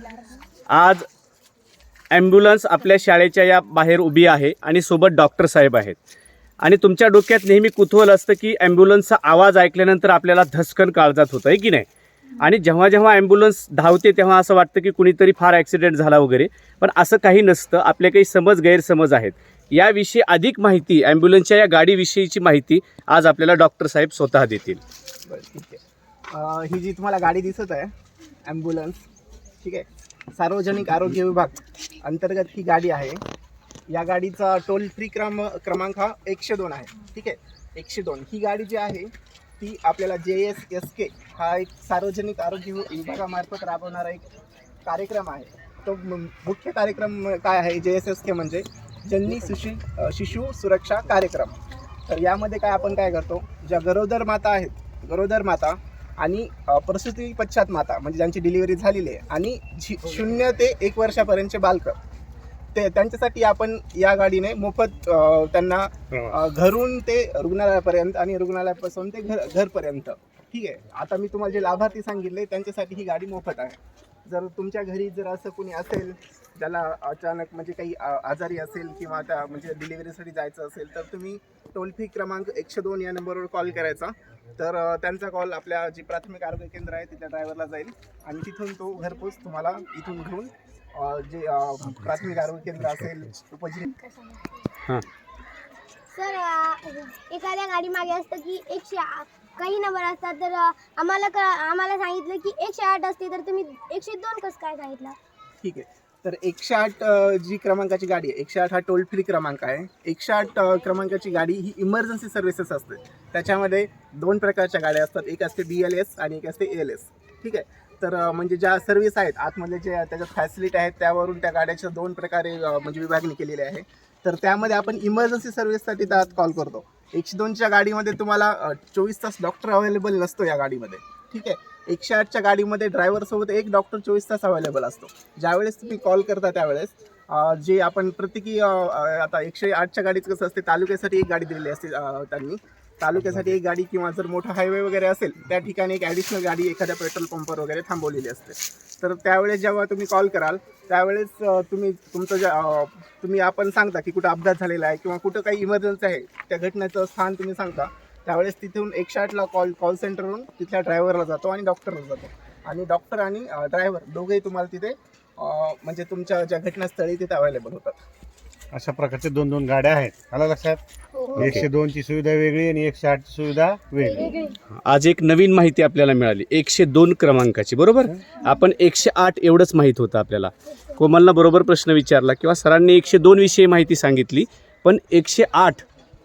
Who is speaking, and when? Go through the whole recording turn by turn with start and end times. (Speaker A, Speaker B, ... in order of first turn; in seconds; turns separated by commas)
Speaker A: 0.7-1.0, Speaker A: 2.1-6.0, Speaker A: 6.6-11.8, Speaker A: 12.4-24.8, Speaker B: 25.2-25.8, Speaker B: 26.3-27.9, Speaker B: 28.4-29.0, Speaker B: 29.6-33.2, Speaker B: 33.9-44.2, Speaker B: 44.8-51.5, Speaker B: 52.1-62.0, Speaker B: 62.7-93.9, Speaker C: 96.1-105.2, Speaker B: 105.6-168.0, Speaker D: 168.7-170.8, Speaker D: 171.3-174.3, Speaker A: 171.3-171.7, Speaker C: 174.1-174.5, Speaker A: 174.7-185.8